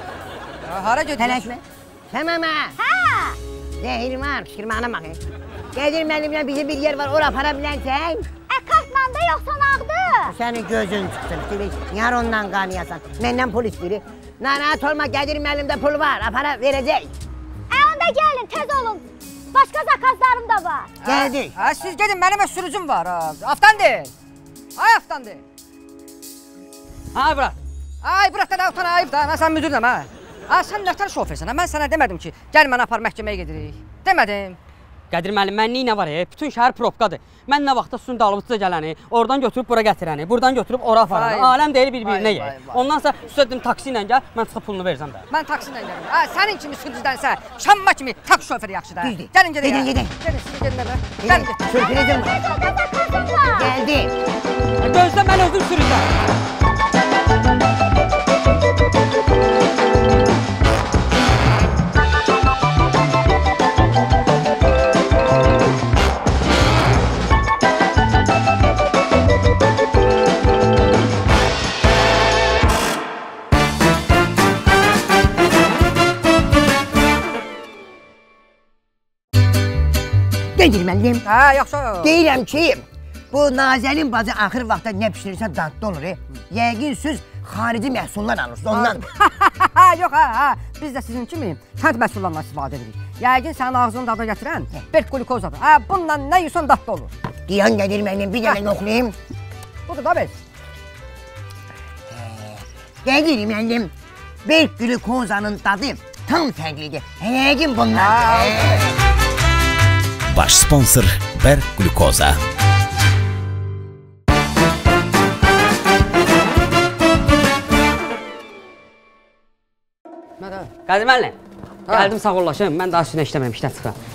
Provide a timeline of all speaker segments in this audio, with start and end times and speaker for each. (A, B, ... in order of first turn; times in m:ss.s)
0:00.7-0:01.4 A
0:01.2-0:02.8 B
0:02.8-0:03.4 C
0:03.8-0:05.2 B
0:05.7-0:08.3 B
0:08.5-0:10.4 C
0:10.3-0:17.1 B
0:17.7-0:20.9 C
0:21.0-0:24.1 A
0:21.0-0:21.6 B
0:24.8-0:25.4 A
0:27.1-0:27.6 D
0:28.0-0:34.6 A
0:35.1-0:45.2 D
0:41.1-0:42.8 A
0:45.3-0:51.6 A
0:49.0-0:50.2 B
0:51.2-0:52.4 B
0:52.2-0:53.7 C
0:53.6-0:54.1 B
0:54.8-0:56.1 D
1:20.6-1:21.3 B
1:21.3-1:22.1 A
1:22.0-1:29.1 B
1:28.7-1:37.1 A
1:37.5-1:39.2 B
1:39.9-1:40.3 A
1:42.1-1:43.9 B
1:44.4-1:48.9 B
1:47.9-1:48.9 A
1:50.3-1:52.4 E
2:00.4-2:00.7 A
2:00.9-2:01.4 D
2:01.9-2:04.0 D